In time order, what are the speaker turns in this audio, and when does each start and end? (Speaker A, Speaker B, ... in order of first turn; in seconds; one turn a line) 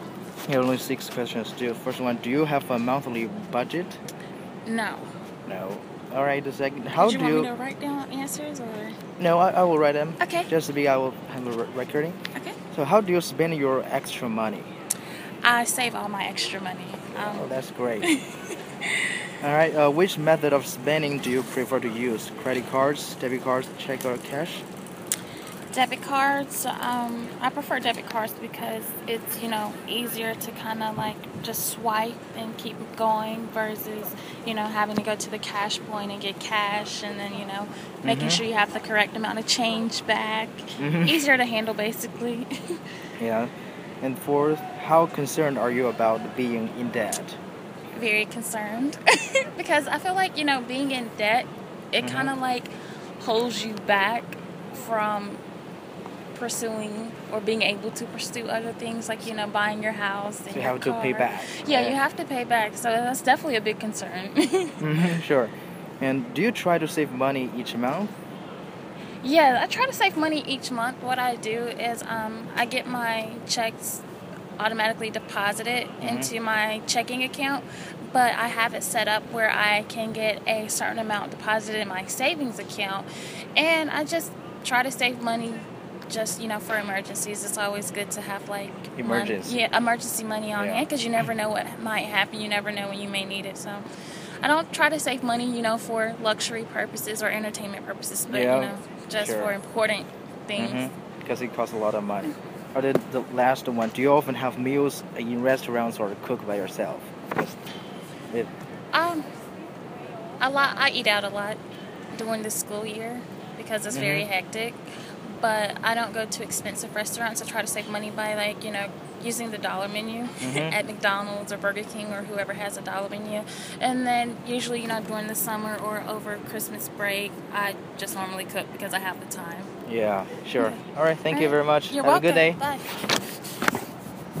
Speaker A: 0.5-4.0
Speaker B: 4.7-5.1
Speaker A: 5.5-7.5
Speaker B: 7.0-9.0
Speaker A: 9.2-12.2
Speaker B: 10.2-10.5
Speaker A: 12.7-14.7
Speaker B: 15.4-19.1
Speaker A: 17.1-18.1
Speaker A: 19.4-24.6
Speaker B: 25.7-42.8
Speaker A: 38.0-38.4
Speaker A: 40.8-41.2
Speaker A: 43.2-47.4
Speaker B: 47.9-55.4
Speaker A: 52.0-52.3
Speaker B: 56.3-65.0
Speaker A: 60.5-62.0
Speaker A: 64.8-68.1
Speaker B: 69.2-74.0
Speaker B: 74.6-93.8
Speaker A: 76.0-76.3
Speaker A: 89.0-89.5
Speaker A: 90.5-90.8
Speaker B: 94.4-100.8
Speaker A: 98.3-99.5
Speaker A: 100.5-107.6
Speaker B: 108.9-109.3
Speaker B: 110.4-111.6
Speaker B: 112.1-129.7
Speaker A: 113.9-114.3
Speaker A: 120.4-120.8
Speaker A: 129.8-132.6
Speaker B: 131.3-132.9